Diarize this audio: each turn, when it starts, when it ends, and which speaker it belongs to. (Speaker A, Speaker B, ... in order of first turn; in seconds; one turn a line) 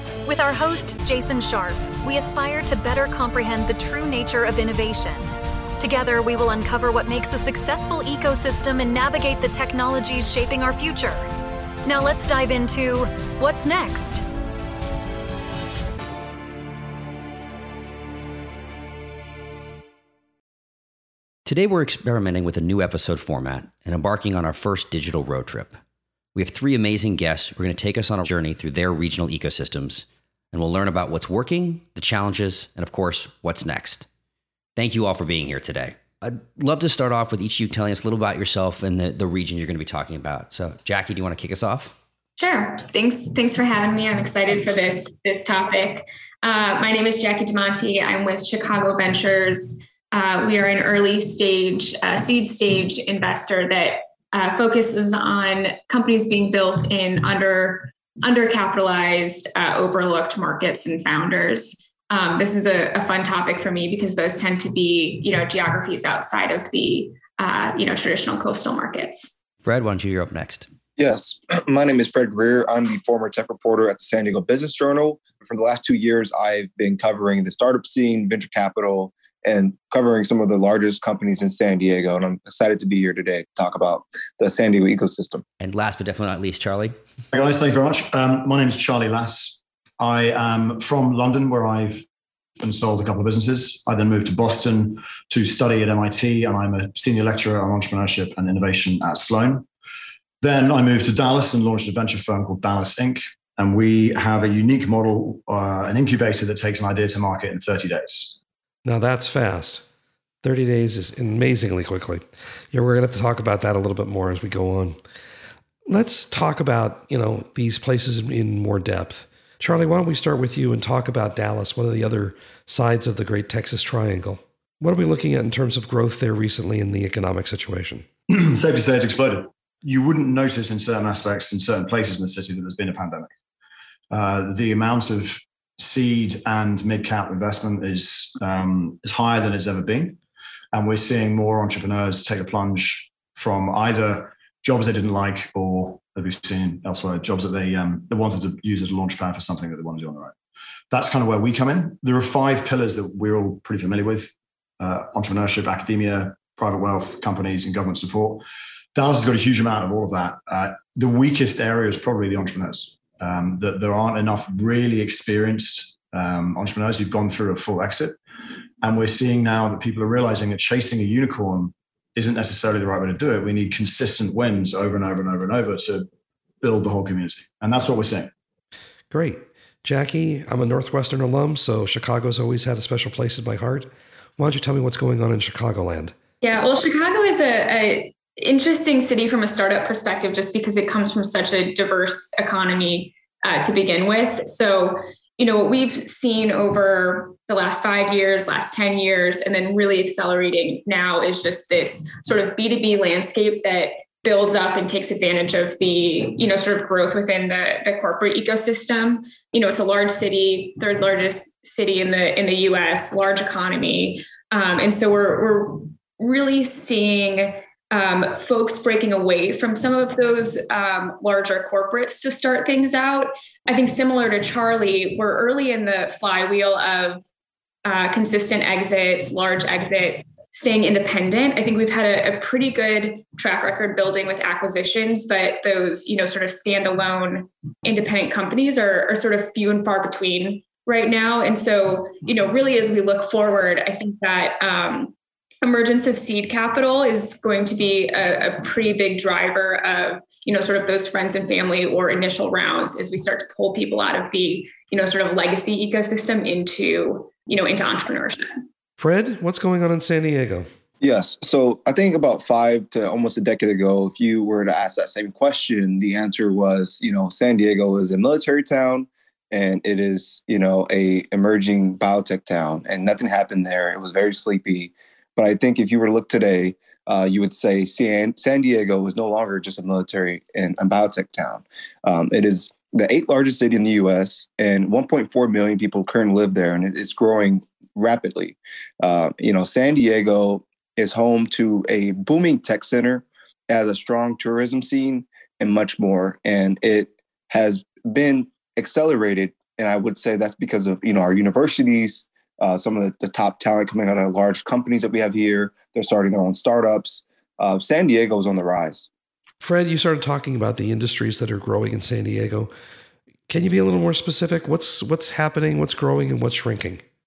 Speaker A: 0.2-5.3
Speaker A: 5.8-11.3
Speaker A: 11.8-14.2
Speaker B: 21.4-25.8
Speaker B: 26.3-34.1
Speaker B: 34.8-41.9
Speaker C: 42.4-69.3
Speaker B: 69.6-70.7
Speaker D: 71.0-85.4
Speaker B: 85.6-86.9
Speaker E: 87.3-92.0
Speaker E: 92.6-99.7
Speaker E: 100.4-108.4
Speaker F: 108.8-109.8
Speaker F: 110.4-115.0
Speaker F: 115.9-128.1
Speaker E: 128.3-133.3
Speaker E: 134.1-140.2
Speaker E: 140.7-150.3
Speaker E: 150.9-158.4
Speaker E: 158.9-168.2
Speaker E: 168.8-176.0
Speaker E: 176.6-178.3
Speaker F: 179.1-186.1
Speaker C: 186.4-227.2
Speaker C: 227.8-258.6
Speaker F: 259.0-260.7
Speaker D: 261.0-309.1
Speaker F: 309.6-312.7
Speaker F: 313.5-317.0